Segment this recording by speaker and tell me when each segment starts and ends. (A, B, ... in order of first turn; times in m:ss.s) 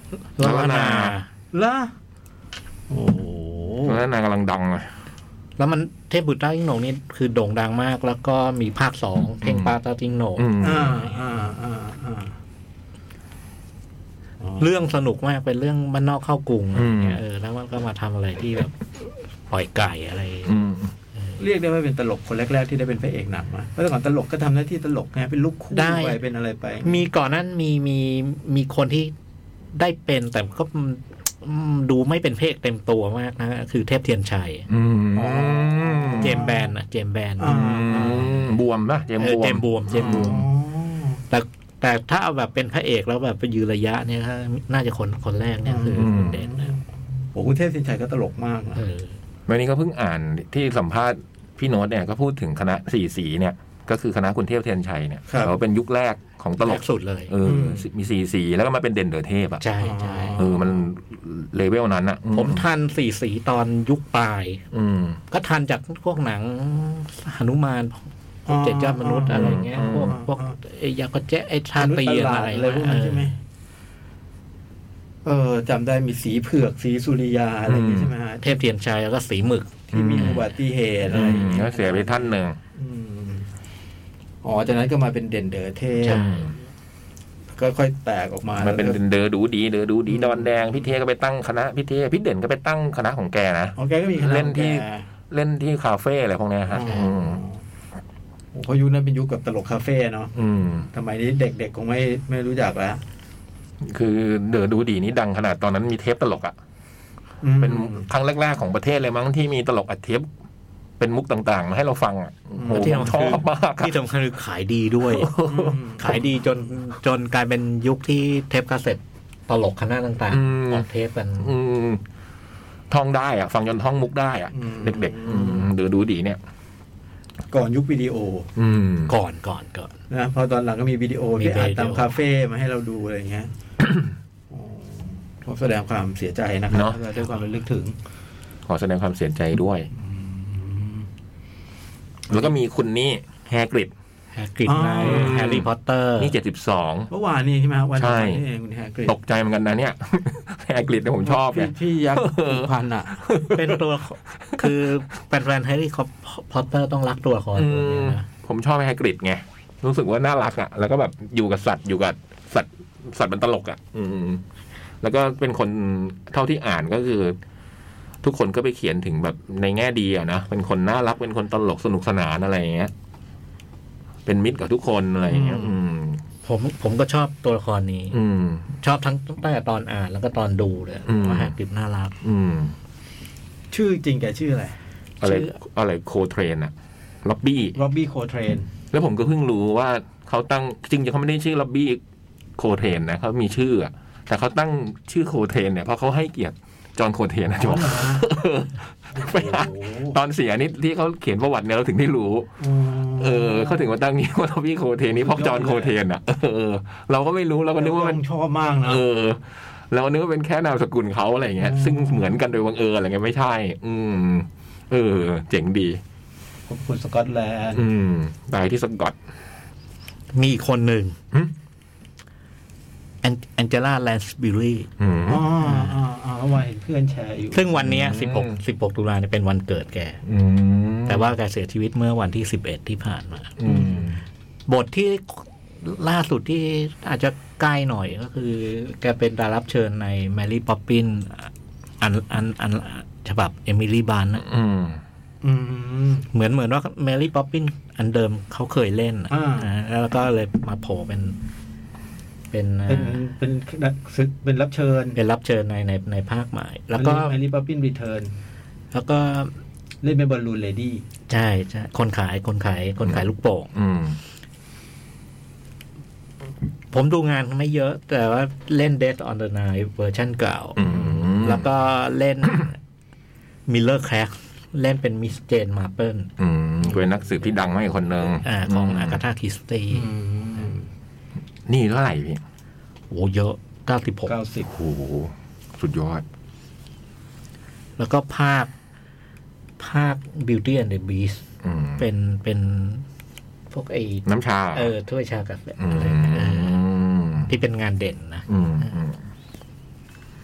0:00.4-0:01.3 A
0:00.4-0:01.1 B
0:01.5-0:01.9 C
0:02.9-0:04.0 C
0:03.8-0:04.9 B
0:05.6-0:10.5 A
0:09.4-0:09.7 B
0:10.4-0:11.1 B
0:10.6-0:12.3 C
0:14.6-0:18.8 A
0:16.7-0:17.2 B
0:19.5-0:20.5 A
0:20.4-0:20.9 B
0:21.4-0:27.0 C
0:25.7-0:26.2 A
0:26.8-0:29.1 A
0:29.7-0:34.7 A
0:34.7-0:36.4 B
0:35.1-0:36.7 C
0:36.2-0:38.4 A
0:37.4-0:38.4 C
0:37.5-0:40.4 B
0:39.2-0:40.5 A
0:39.9-0:41.2 C
0:41.3-0:46.7 A
0:45.6-0:46.8 C
0:46.0-0:46.4 B
0:47.3-0:48.8 C
0:48.8-0:49.1 A
0:49.5-0:59.6 B
0:55.3-0:55.5 C
0:56.6-0:57.3 A
0:57.4-0:57.8 C
0:59.6-1:00.4 A
0:59.8-1:00.8 C
1:00.4-1:02.6 B
1:02.3-1:04.6 A
1:04.7-1:05.2 B
1:05.3-1:13.3 A
1:08.5-1:10.6 C
1:09.3-1:10.2 B
1:11.8-1:13.4 C
1:15.2-1:18.6 C
1:17.7-1:18.1 B
1:18.4-1:19.8 A
1:19.9-1:23.5 C
1:19.9-1:20.4 B
1:21.1-1:22.6 B
1:24.4-1:26.4 C
1:26.0-1:26.5 A
1:26.1-1:26.5 B
1:27.6-1:29.0 C
1:28.6-1:37.4 B
1:30.1-1:30.6 C
1:33.8-1:35.1 C
1:36.7-1:37.6 C
1:38.5-1:40.3 C
1:40.3-1:40.9 B
1:40.9-1:43.0 C
1:43.8-1:46.5 B
1:47.4-1:48.1 C
1:47.6-1:50.3 B
1:51.0-1:53.9 B
1:52.6-1:53.1 C
1:52.7-1:55.3 A
1:55.1-1:55.8 B
1:55.4-1:56.4 C
1:56.0-2:01.6 A
2:00.3-2:00.9 B
2:01.4-2:02.0 B
2:02.9-2:06.4 B
2:04.5-2:05.7 C
2:07.5-2:08.5 C
2:08.6-2:09.1 B
2:09.1-2:09.9 A
2:10.1-2:13.5 C
2:11.4-2:12.1 A
2:14.5-2:18.0 C
2:16.7-2:17.0 B
2:18.7-2:19.9 B
2:19.9-2:21.1 C
2:22.3-2:23.9 B
2:24.3-2:26.3 A
2:24.7-2:25.4 C
2:25.0-2:25.7 B
2:26.2-2:27.1 B
2:27.1-2:29.1 C
2:28.0-2:28.4 B
2:29.1-2:32.7 B
2:31.2-2:33.3 C
2:33.2-2:33.8 B
2:33.5-2:38.2 A
2:37.5-2:44.4 B
2:45.0-2:47.4 B
2:48.2-2:52.9 B
2:54.2-2:56.2 B
2:55.3-2:55.8 C
2:56.4-2:58.2 A
2:58.1-2:58.6 B
2:58.7-3:02.1 A
3:01.1-3:01.5 B
3:02.2-3:02.7 B
3:03.7-3:04.8 C
3:05.2-3:06.7 B
3:05.2-3:05.5 A
3:07.2-3:07.8 B
3:07.7-3:08.7 C
3:08.9-3:12.0 B
3:12.6-3:22.5 B
3:17.5-3:18.3 C
3:19.1-3:20.2 C
3:22.6-3:23.9 C
3:23.1-3:28.2 B
3:25.1-3:26.0 C
3:27.8-3:29.0 C
3:28.8-3:36.0 B
3:31.6-3:32.4 C
3:36.7-3:37.8 C
3:37.7-3:39.2 B
3:40.3-3:41.2 A
3:43.2-3:44.9 A
3:45.0-3:45.4 B
3:45.3-3:47.7 C
3:47.5-3:50.2 A
3:47.8-3:48.6 B
3:50.2-3:51.3 B
3:51.1-3:53.6 A
3:53.6-3:54.2 B
3:53.7-3:54.0 C
3:54.7-4:04.4 A
4:04.4-4:05.0 B
4:05.4-4:06.3 C
4:06.3-4:11.4 A
4:09.3-4:09.7 C
4:12.5-4:13.2 A
4:12.9-4:15.2 C
4:15.1-4:17.4 A
4:17.0-4:18.3 C
4:18.9-4:19.5 A
4:20.0-4:21.0 C
4:21.3-4:23.7 A
4:23.0-4:24.2 B
4:26.9-4:30.8 A
4:30.8-4:31.7 B
4:30.8-4:31.2 C
4:31.4-4:32.8 A
4:33.7-4:36.3 A
4:36.4-4:39.2 B
4:38.4-4:40.1 A
4:39.9-4:40.9 C
4:41.7-4:42.4 B
4:43.1-4:44.4 A
4:44.3-4:44.7 C
4:44.6-4:46.2 B
4:48.0-4:48.7 A
4:49.8-4:51.4 A
4:51.6-4:52.0 B
4:52.0-4:53.0 A
4:53.7-4:56.8 A
4:54.2-4:54.9 B
4:55.8-4:57.5 B
4:57.5-4:59.0 A
4:58.5-4:59.2 B